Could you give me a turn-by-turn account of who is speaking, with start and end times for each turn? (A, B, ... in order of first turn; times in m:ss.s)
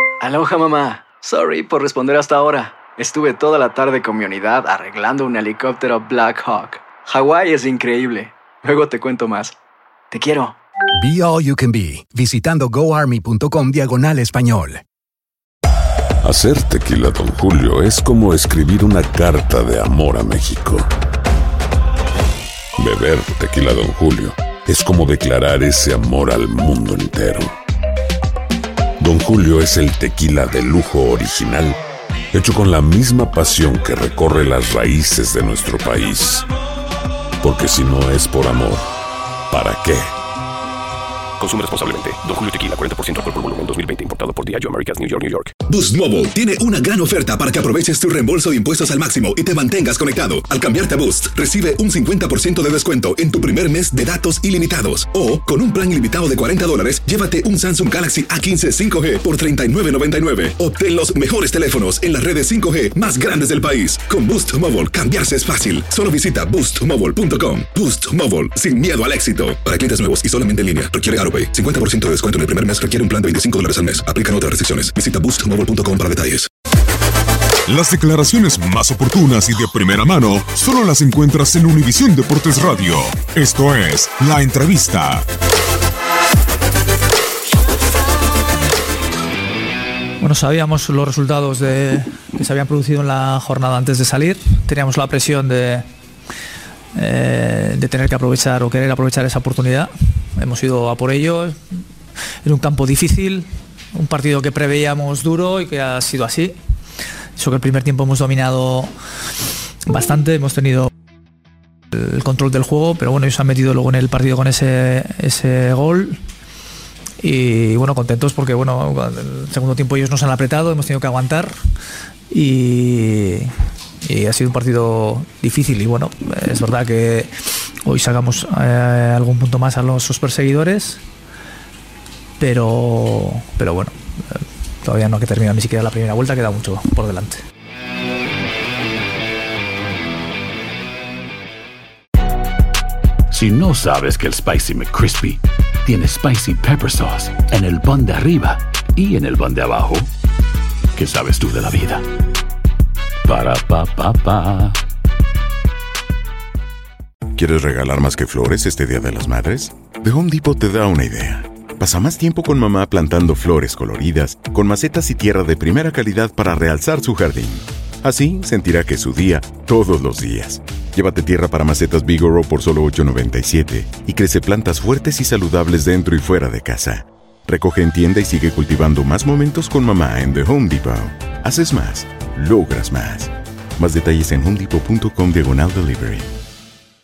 0:00.2-0:09.6 A
0:10.1-0:10.6 A
0:11.0-0:14.8 B
0:16.2-0:20.9 C
0:22.8-0:27.5 C
0:29.0-0:31.8 C
0:32.3-0:36.4 C
0:37.4-0:38.8 C
0:39.5-0:40.1 C
0:41.4-0:45.5 D
0:45.7-1:16.5 E
1:17.7-1:25.2 F
1:30.2-1:35.8 G
1:36.9-1:41.6 G
1:42.4-1:46.5 G
1:47.4-1:48.9 G
1:49.9-1:50.9 G
1:51.9-1:56.2 G
1:57.2-2:01.5 G
2:02.3-2:07.3 G
2:07.8-2:11.0 G
2:12.4-2:17.4 G
2:23.3-2:30.0 H
2:31.0-2:32.0 H
2:33.2-2:34.8 H
2:37.3-3:06.3 I